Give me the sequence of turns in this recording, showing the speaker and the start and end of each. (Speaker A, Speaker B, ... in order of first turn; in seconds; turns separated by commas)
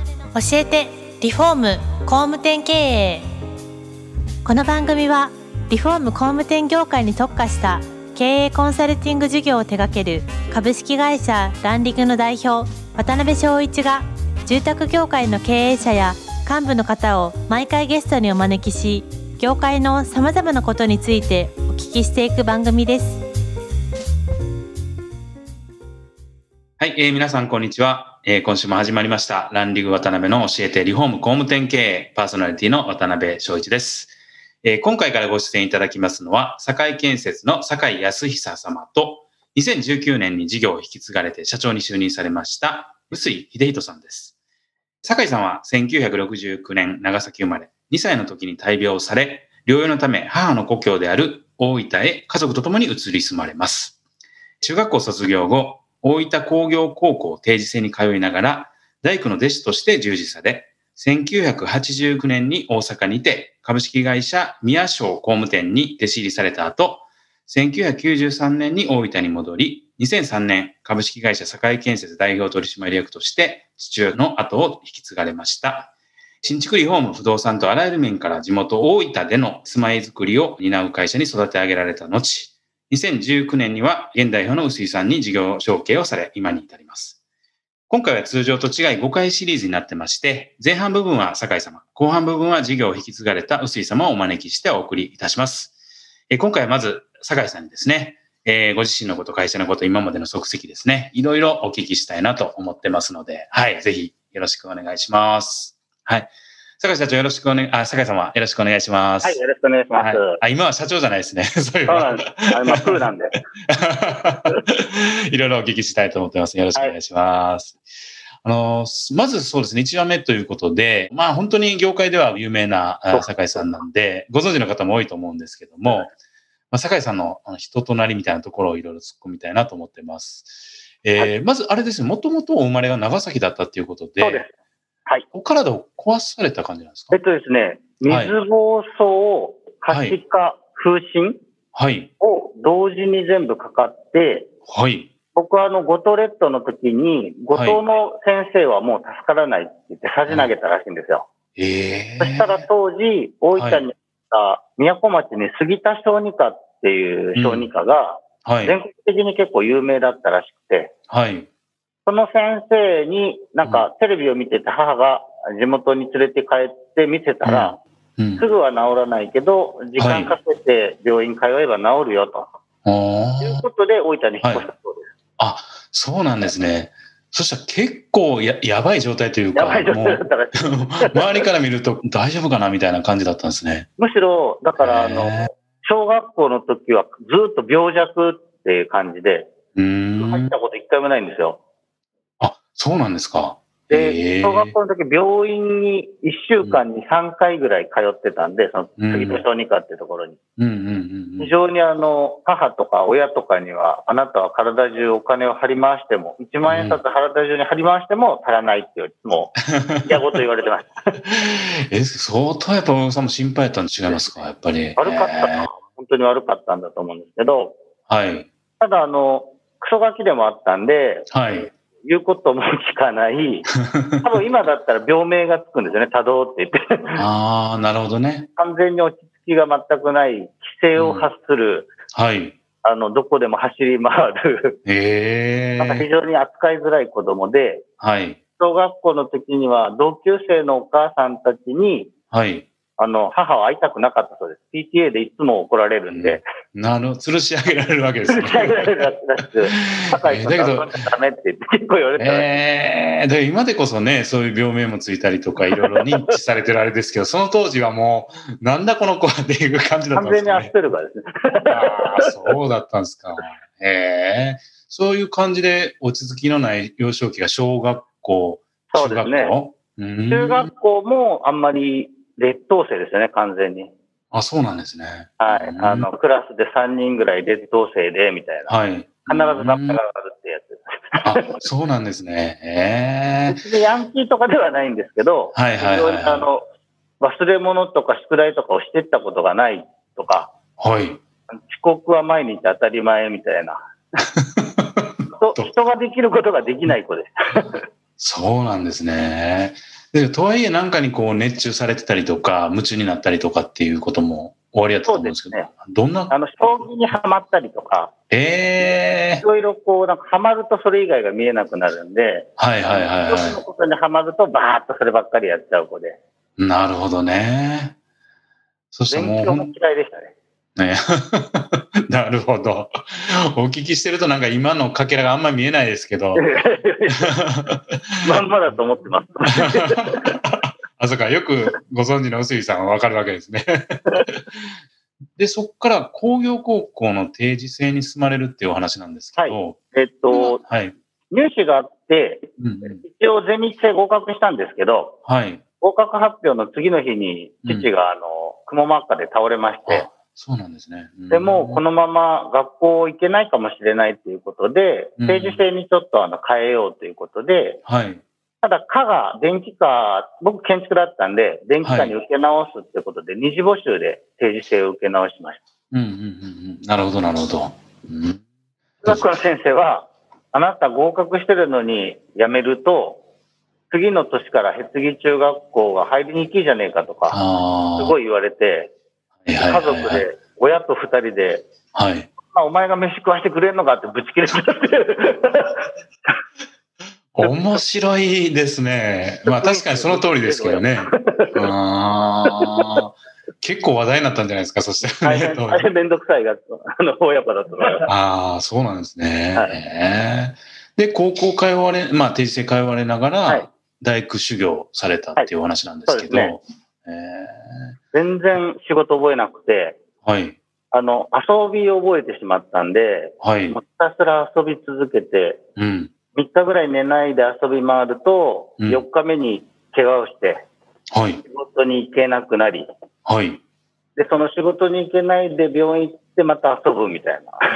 Speaker A: 0.3-3.3, Speaker A: 4.4-23.2, Speaker B: 26.8-44.3, Speaker B: 45.0-54.0, Speaker B: 54.6-87.2, Speaker B: 87.9-95.7, Speaker B: 96.3-109.4, Speaker C: 109.2-110.4, Speaker B: 110.0-113.0, Speaker C: 111.9-113.4, Speaker B: 113.7-117.8, Speaker B: 118.4-126.1, Speaker C: 123.1-123.7, Speaker B: 126.7-134.4, Speaker C: 134.2-134.5, Speaker B: 135.3-137.2, Speaker C: 137.1-141.4, Speaker B: 138.1-138.3, Speaker B: 139.9-140.2, Speaker B: 141.7-142.1, Speaker C: 142.2-144.5, Speaker B: 144.7-145.1, Speaker C: 145.3-151.3, Speaker B: 147.5-147.8, Speaker B: 150.3-150.5, Speaker B: 151.6-152.6, Speaker C: 152.2-160.9, Speaker B: 153.5-153.8, Speaker B: 157.3-157.7, Speaker B: 158.4-158.8, Speaker B: 161.1-161.5, Speaker C: 162.1-167.8, Speaker B: 167.4-168.4, Speaker C: 168.4-172.5, Speaker B: 170.0-170.3, Speaker B: 172.8-173.6, Speaker C: 173.4-175.1, Speaker B: 175.4-183.9, Speaker C: 179.5-181.4, Speaker C: 184.0-189.5, Speaker B: 184.8-185.5, Speaker B: 189.7-190.5, Speaker C: 190.2-191.6, Speaker B: 192.4-194.7, Speaker C: 193.9-200.4, Speaker B: 199.0-199.4, Speaker B: 200.6-201.5, Speaker C: 201.4-211.2, Speaker B: 206.7-207.0, Speaker B: 209.8-210.2, Speaker B: 211.2-215.7, Speaker C: 214.1-214.4, Speaker C: 215.0-217.7, Speaker B: 218.1-218.5, Speaker C: 218.8-227.2, Speaker B: 221.3-221.7, Speaker B: 223.9-224.2, Speaker B: 227.1-228.5, Speaker C: 228.6-231.9, Speaker B: 230.9-231.3, Speaker B: 232.1-232.6, Speaker C: 232.8-234.8, Speaker B: 234.8-236.1, Speaker C: 235.8-237.8, Speaker B: 238.0-238.4, Speaker C: 238.6-242.1, Speaker B: 242.3-242.7, Speaker C: 243.0-246.4, Speaker B: 246.1-249.0, Speaker C: 248.3-252.5, Speaker B: 249.7-251.1, Speaker B: 252.2-260.7, Speaker C: 255.7-256.3, Speaker C: 260.1-262.4, Speaker B: 261.7-270.7, Speaker C: 268.9-269.5, Speaker C: 270.3-273.9, Speaker B: 274.3-276.1, Speaker C: 275.4-281.6, Speaker B: 278.7-280.0, Speaker B: 281.2-283.6, Speaker C: 283.5-286.6, Speaker B: 285.5-286.4, Speaker C: 287.2-290.5, Speaker B: 290.8-291.2, Speaker C: 291.5-293.8, Speaker B: 294.6-295.1, Speaker C: 295.3-297.8, Speaker B: 298.2-306.3, Speaker C: 305.1-305.7, Speaker C: 306.3-308.1, Speaker B: 308.3-309.4, Speaker C: 308.8-316.2, Speaker B: 312.6-313.6, Speaker B: 316.6-317.9, Speaker B: 318.9-319.7, Speaker C: 319.1-320.3, Speaker B: 320.8-326.5, Speaker C: 326.3-327.3, Speaker B: 327.1-328.2, Speaker C: 328.2-330.3, Speaker B: 329.5-334.7, Speaker B: 335.4-339.8, Speaker C: 339.4-340.6, Speaker B: 340.3-340.9, Speaker C: 341.3-345.2, Speaker B: 342.6-343.0, Speaker B: 345.2-345.6, Speaker C: 345.8-350.1, Speaker B: 349.9-351.8, Speaker C: 351.3-357.8, Speaker B: 355.2-355.6, Speaker B: 357.9-358.2, Speaker C: 358.6-365.6, Speaker B: 361.8-362.1, Speaker B: 365.9-368.4, Speaker C: 369.0-373.2, Speaker B: 369.0-369.3, Speaker C: 373.9-377.4, Speaker B: 377.3-378.1, Speaker C: 378.0-378.9, Speaker B: 379.4-380.2, Speaker C: 379.6-381.6, Speaker B: 381.9-382.3, Speaker C: 382.5-386.3, Speaker B: 387.3-395.8, Speaker C: 389.5-391.7, Speaker C: 392.4-393.0, Speaker C: 395.2-398.1, Speaker B: 398.1-407.9, Speaker C: 406.1-406.6, Speaker C: 408.1-410.0, Speaker B: 410.2-410.6, Speaker C: 410.9-415.6, Speaker B: 413.4-413.8, Speaker B: 415.8-416.1, Speaker C: 416.3-420.6, Speaker B: 421.1-421.4, Speaker C: 421.4-422.9, Speaker B: 423.2-423.6, Speaker C: 424.1-427.6